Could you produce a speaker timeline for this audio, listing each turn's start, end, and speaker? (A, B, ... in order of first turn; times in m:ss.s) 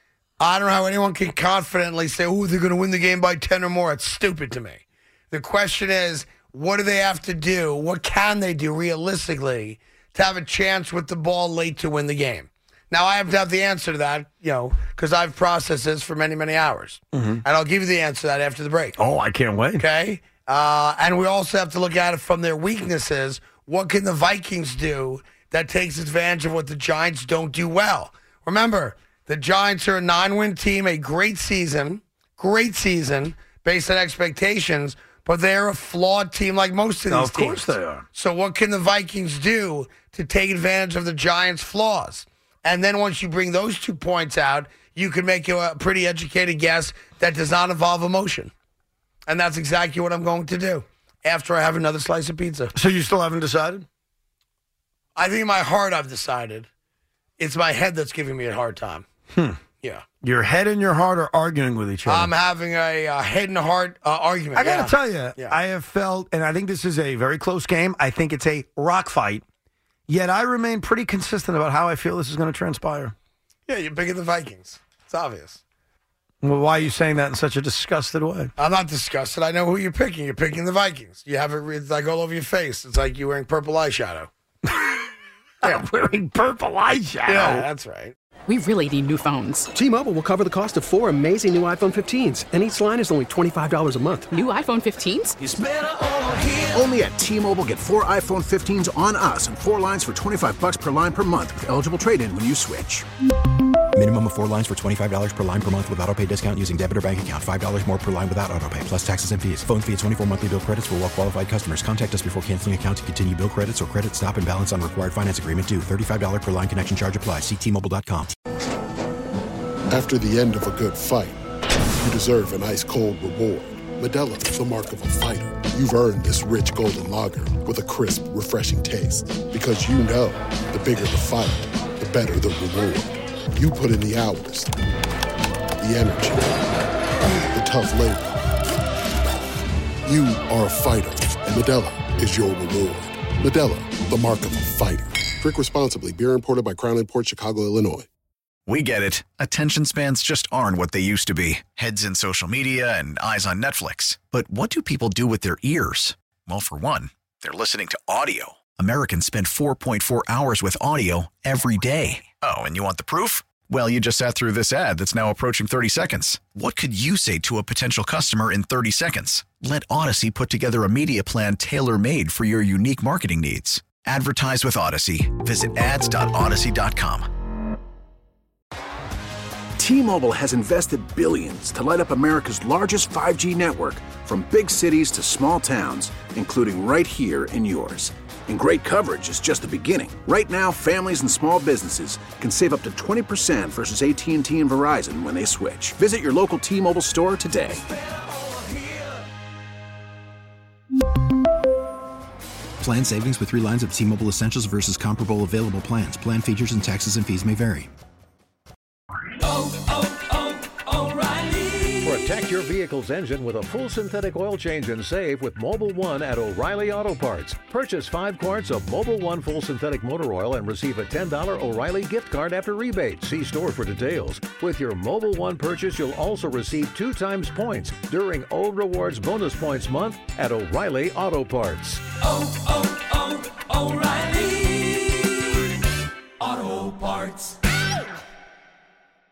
0:00.4-0:19.0 A
0:17.1-0:17.4 B
0:19.0-0:19.8 B
0:19.8-0:48.5 A
0:37.1-0:38.1 B
0:49.3-0:52.7 A
0:52.7-0:53.9 B
0:55.2-0:56.7 A
0:57.4-0:59.1 A
0:59.3-0:59.6 B
0:59.8-1:00.0 A
1:00.2-1:02.3 B
1:02.1-1:05.6 A
1:04.5-1:09.4 B
1:10.1-1:13.1 B
1:13.7-1:15.6 A
1:16.4-1:18.5 B
1:18.6-1:24.3 A
1:24.7-1:25.0 B
1:25.6-1:27.7 B
1:27.3-1:28.2 A
1:28.5-1:29.7 C
1:29.7-1:34.4 D
1:34.3-1:35.4 C
1:35.4-1:43.1 E
1:44.0-1:58.3 F
1:59.9-2:01.4 G
2:02.0-2:14.8 G
2:15.8-2:16.8 G
2:17.5-2:18.4 G
2:20.0-2:28.1 G
2:28.7-2:57.3 H
2:59.8-3:17.8 E
3:22.8-3:27.9 F
3:32.0-3:52.1 I
3:53.8-3:55.2 J
3:56.4-3:57.5 J